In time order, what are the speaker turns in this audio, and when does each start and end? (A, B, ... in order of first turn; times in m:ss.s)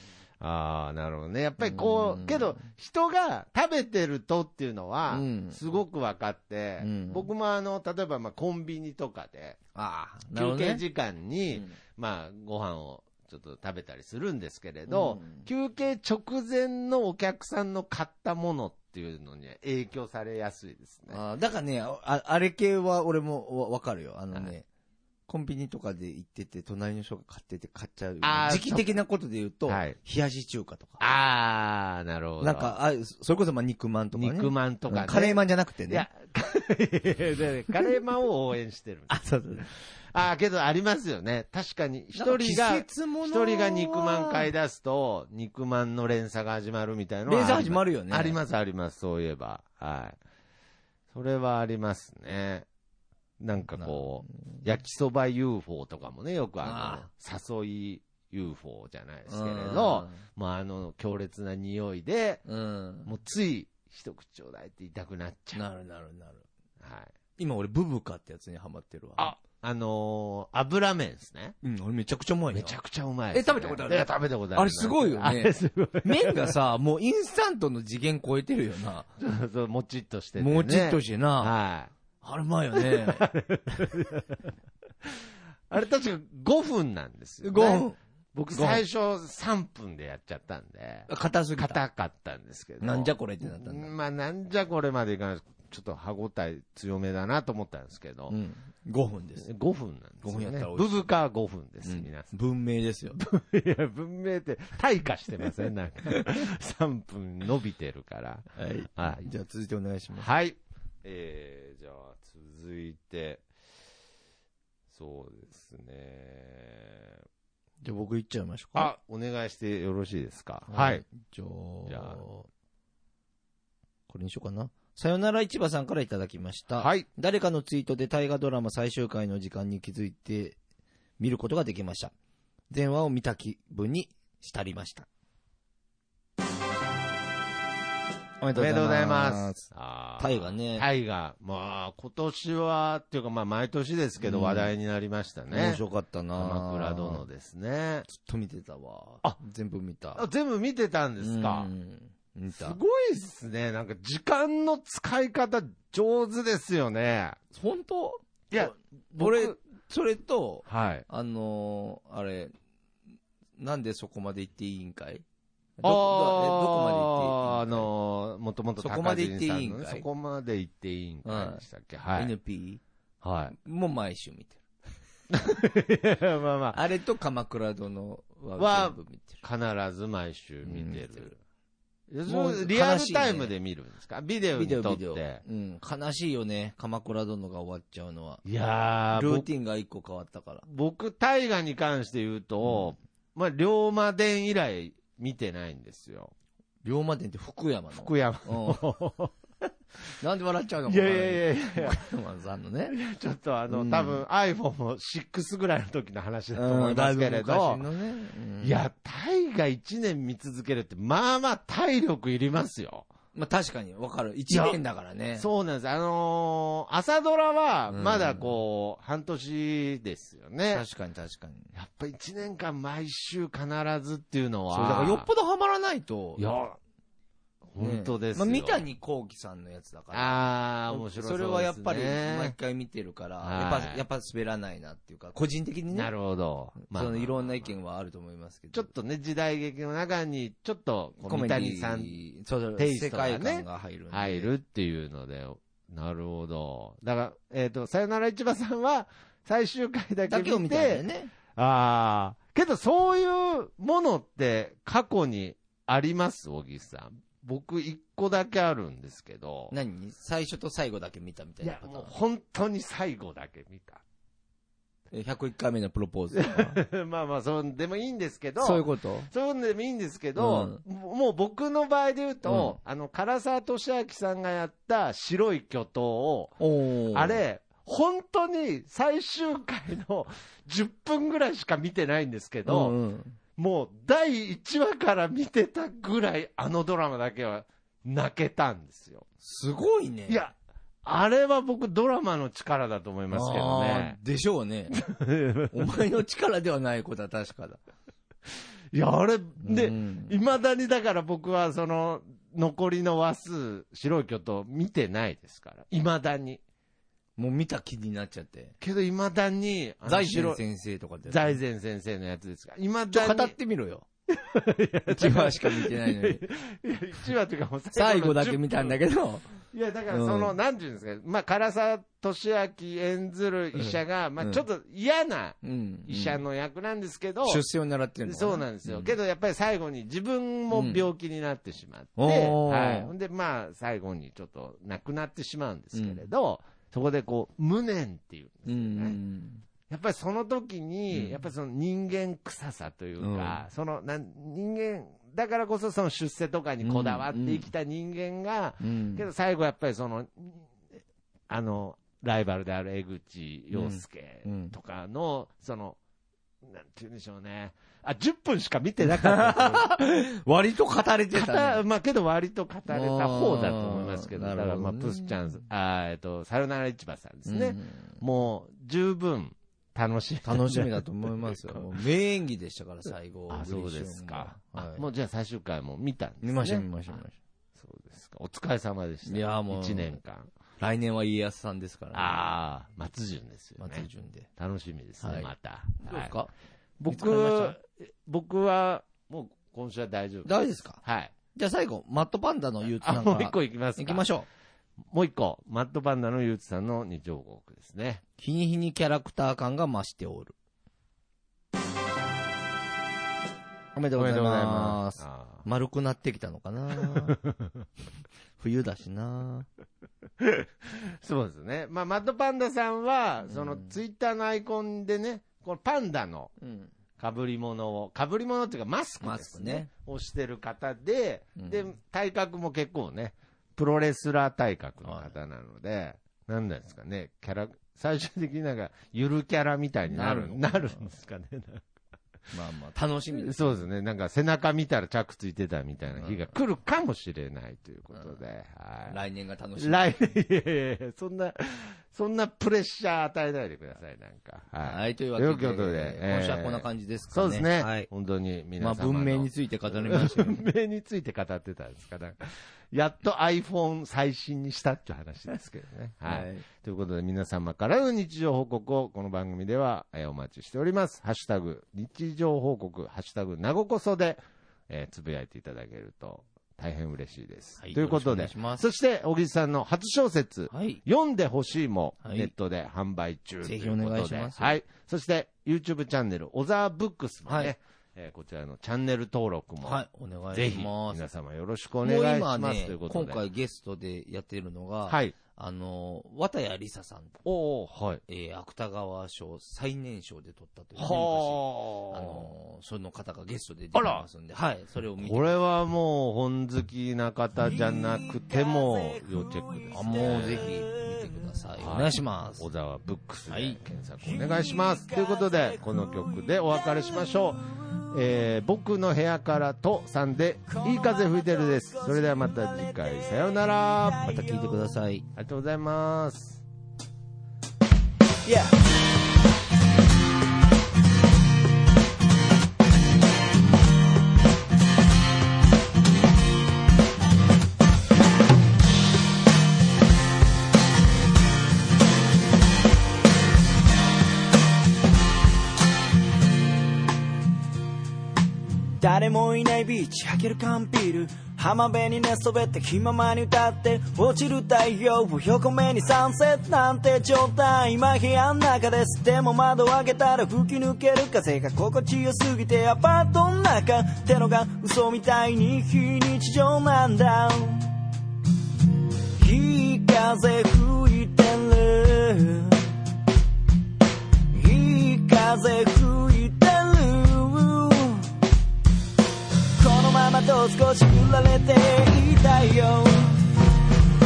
0:00.4-0:09.6 A
0:01.6-0:02.6 B
0:05.1-0:05.6 B
0:06.8-0:07.3 B
0:09.8-0:10.8 B
0:10.3-0:21.2 A
0:11.5-0:11.8 B
0:14.9-0:15.5 B
0:21.1-0:24.7 B
0:25.3-0:31.0 B
0:28.2-0:28.9 A
0:29.7-0:30.0 A
0:31.0-0:32.8 A
0:32.4-0:36.1 B
0:34.1-0:39.2 A
0:39.1-0:39.7 B
0:40.1-0:50.2 A
0:42.2-0:44.5 B
0:47.3-0:48.4 B
0:51.1-0:52.7 A
0:53.4-1:02.4 A
0:53.8-0:54.3 B
0:56.6-0:57.1 B
0:59.3-1:00.2 B
1:02.5-1:03.1 B
1:03.1-1:05.6 A
1:05.6-1:06.4 B
1:06.8-1:07.1 A
1:07.4-1:09.3 B
1:09.2-1:11.6 A
1:11.6-1:12.8 B
1:12.5-1:16.6 A
1:13.3-1:19.1 B
1:19.2-1:21.9 A
1:20.4-1:21.5 B
1:22.2-1:23.3 B
1:22.8-1:24.4 A
1:25.7-1:38.4 A
1:27.4-1:28.0 B
1:28.5-1:28.8 B
1:31.1-1:31.8 B
1:32.8-1:33.9 B
1:38.3-1:39.5 B
1:39.4-1:42.3 A
1:40.2-1:40.9 B
1:41.8-1:43.2 B
1:43.2-1:49.3 A
1:48.6-1:50.3 B
1:50.2-1:53.5 A
1:54.9-1:57.2 A
1:57.8-1:58.9 B
1:58.8-2:01.0 A
2:00.7-2:02.5 B
2:01.9-2:02.2 A
2:04.1-2:10.6 B
2:06.8-2:07.1 A
2:11.2-2:12.1 B
2:12.7-2:15.1 B
2:18.4-2:19.7 B
2:18.6-2:25.8 A
2:20.2-2:20.9 B
2:24.2-2:24.7 B
2:25.5-2:27.3 B
2:26.4-2:28.1 A
2:28.1-2:30.3 B
2:30.2-2:31.7 A
2:31.2-2:32.8 B
2:32.5-2:37.4 A
2:37.5-2:42.5 B
2:38.5-2:39.6 A
2:40.7-2:41.1 A
2:43.6-2:45.2 B
2:45.8-2:47.9 B
2:45.8-2:52.3 A
2:48.8-2:50.1 B
2:51.2-2:51.6 B
2:52.2-2:52.8 B
2:53.2-2:53.6 A
2:53.5-2:54.6 B
2:55.3-2:56.8 A
2:56.7-2:59.4 B
2:58.6-3:01.3 A
3:00.6-3:01.4 B
3:02.1-3:05.4 A
3:02.3-3:03.5 B
3:04.6-3:08.4 B
3:08.4-3:09.5 A
3:09.1-3:10.6 B
3:10.7-3:16.3 A
3:16.8-3:18.8 B
3:18.0-3:19.3 A
3:20.2-3:23.0 B
3:20.9-3:22.0 A
3:22.9-3:27.9 A
3:23.7-3:24.2 B
3:26.5-3:28.8 B
3:28.6-3:33.1 A
3:33.3-3:35.5 B
3:34.5-3:34.8 A
3:35.4-3:40.8 A
3:37.9-3:38.6 B
3:40.7-3:41.7 B
3:41.8-3:45.3 A
3:44.7-3:46.4 B
3:46.4-3:46.8 A
3:47.7-3:48.8 A
3:47.8-3:56.1 B
3:50.1-3:52.6 A
3:53.4-3:54.0 A
3:55.9-3:57.7 A
3:56.8-3:58.9 B
3:58.7-4:02.2 A
4:01.2-4:04.5 B
4:02.8-4:19.7 A
4:10.3-4:11.3 B
4:19.7-4:22.1 B
4:21.6-4:24.0 A
4:25.1-4:26.8 B
4:26.4-4:43.0 A
4:28.6-4:29.3 B
4:30.4-4:30.8 B
4:32.4-4:32.8 B
4:36.6-4:37.4 B
4:42.7-4:43.4 B
4:43.6-4:49.3 A
4:49.4-4:50.4 B
4:50.3-4:54.2 A
4:53.3-4:55.0 B
4:54.9-4:55.9 A
4:55.7-4:57.8 B
4:58.9-5:06.6 A
4:59.6-5:00.4 B
5:07.4-5:08.8 B
5:08.8-5:10.6 A
5:10.1-5:11.6 B
5:11.3-5:13.6 A
5:13.1-5:14.1 B
5:14.3-5:19.0 A
5:15.1-5:16.4 B
5:17.9-5:19.6 B
5:19.7-5:27.6 A
5:20.1-5:20.6 B
5:23.8-5:24.6 B
5:25.6-5:26.4 B
5:27.4-5:29.1 B
5:28.2-5:39.2 A
5:30.7-5:31.1 B
5:32.2-5:33.1 B
5:35.9-5:36.2 B
5:38.7-5:39.6 B
5:39.9-5:50.7 A
5:41.1-5:41.4 B
5:43.2-5:43.6 B
5:46.8-5:47.7 B
5:48.8-5:49.3 B
5:51.5-5:56.0 A
5:53.7-5:54.7 B
5:56.6-6:00.0 A
5:59.0-6:01.8 B
6:01.3-6:11.9 A
6:02.9-6:05.4 B
6:07.5-6:08.2 B
6:10.4-6:15.1 B
6:13.5-6:16.9 A
6:16.4-6:17.4 B
6:17.8-6:20.5 A
6:19.3-6:20.2 B
6:20.8-6:22.5 B
6:22.1-6:26.4 A
6:23.8-6:24.5 B
6:25.2-6:25.5 B
6:26.0-6:26.5 B
6:27.0-6:31.3 A
6:27.1-6:27.8 B
6:30.5-6:31.0 B
6:31.6-6:34.5 B
6:33.0-6:34.3 A
6:35.1-6:38.2 A
6:38.4-6:40.6 B
6:44.0-6:47.4 B
6:44.2-6:45.6 A
6:47.0-6:47.3 A
6:48.6-6:49.7 B
6:50.4-6:56.5 A
6:53.5-6:54.0 B
6:56.6-6:56.9 B
6:57.2-7:11.9 A
6:59.2-6:59.9 B
7:01.6-7:01.9 B
7:05.0-7:05.4 B
7:10.1-7:11.1 B
7:12.5-7:13.9 B
7:13.4-7:19.2 A
7:16.2-7:16.5 B
7:19.1-7:20.2 B
7:19.8-8:03.4 A
7:24.8-7:28.1 B
7:28.8-7:30.6 B
7:36.2-7:36.6 B
7:47.8-7:48.8 B
7:50.7-7:51.0 B
7:52.2-7:52.5 B
7:53.6-7:54.8 B
7:57.5-7:57.7 B
7:59.8-8:01.2 B
8:02.0-8:07.4 B
8:05.1-8:05.4 A
8:07.4-8:08.2 A
8:08.3-8:15.6 B
8:11.0-8:12.5 A
8:13.9-8:14.3 A
8:15.2-8:20.7 A
8:17.7-8:21.3 C
8:19.9-8:22.7 B
8:21.8-8:34.4 A
8:23.5-8:23.8 B
8:24.3-8:27.0 C
8:30.7-8:34.8 C
8:34.2-8:35.3 B
8:35.4-8:36.6 A
8:38.4-8:38.8 C
8:59.0-9:17.9 C
9:19.4-9:22.9 C
9:24.5-9:28.3 C
9:29.8-9:33.5 C